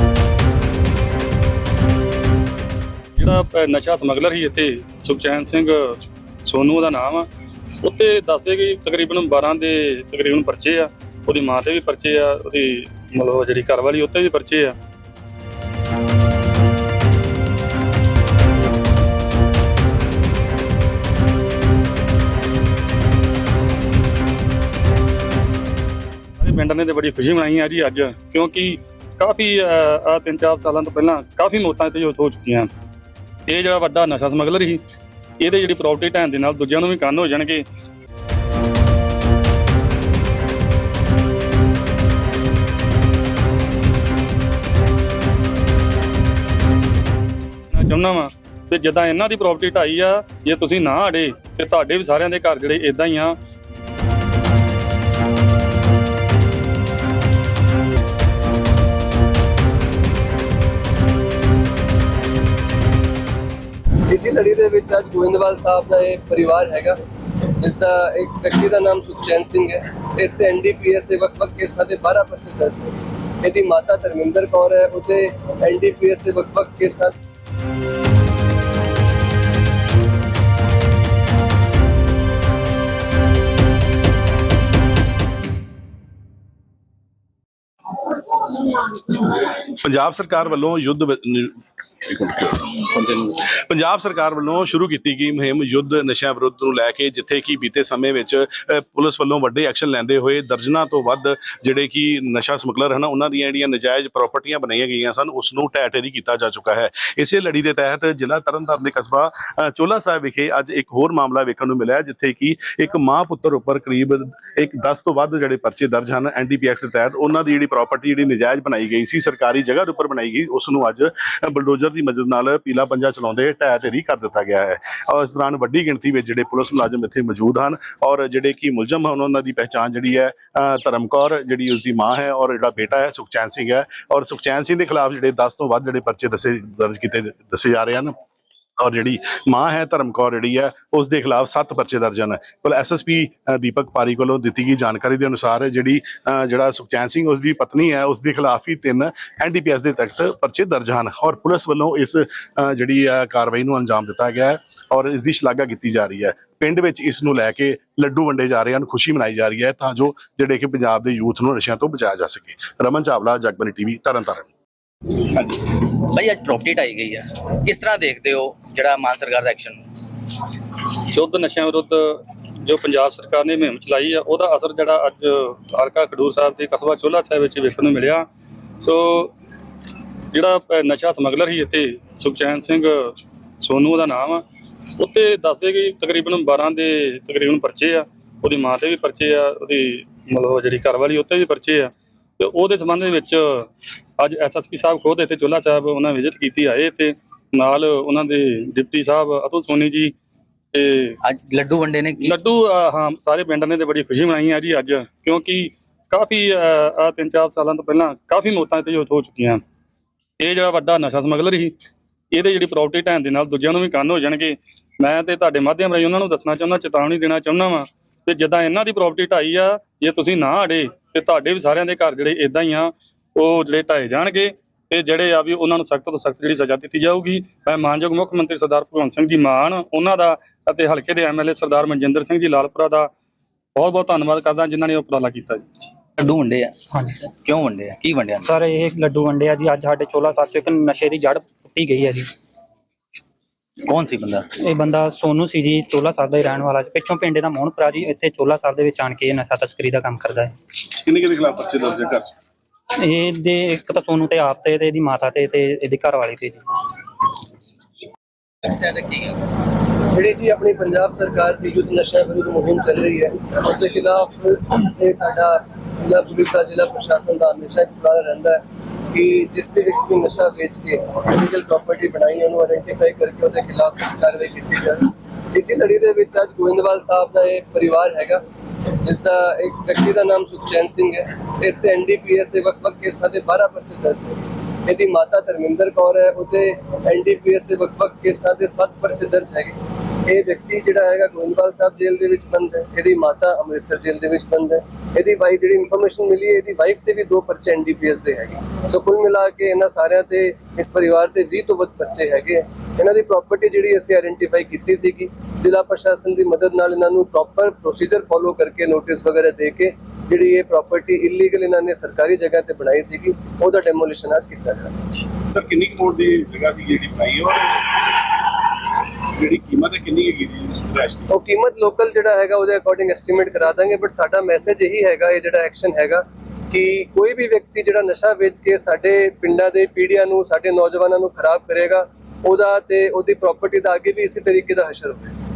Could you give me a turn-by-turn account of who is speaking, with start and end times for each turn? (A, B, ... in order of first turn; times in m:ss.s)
0:03.2-0:07.3 A
0:07.8-0:14.7 A
0:26.4-0:32.7 A
0:33.5-0:34.8 A
0:35.4-0:37.6 A
0:47.7-0:53.4 A
1:04.1-1:07.0 B
1:07.5-1:17.1 B
1:28.2-2:18.1 C
2:18.8-2:44.5 C
2:45.3-2:49.8 D
2:51.0-2:58.2 A
2:58.8-2:59.3 A
3:00.3-3:04.4 A
3:05.0-3:13.7 A
3:14.2-3:20.1 A
3:20.7-3:21.2 A
3:21.2-3:22.4 D
3:22.2-3:29.6 A
3:30.4-3:31.7 A
3:32.3-3:53.1 A
3:53.8-3:55.6 A
3:56.2-3:56.7 D
3:56.9-3:57.3 E
3:57.4-3:58.5 D
3:58.4-4:02.3 E
4:03.8-4:04.5 D
4:04.6-4:10.5 E
4:10.9-4:12.3 C
4:13.0-4:16.6 E
4:18.6-4:19.4 D
4:20.1-4:38.4 B
4:39.0-5:15.1 B
5:15.2-5:21.3 C
5:21.3-5:35.4 B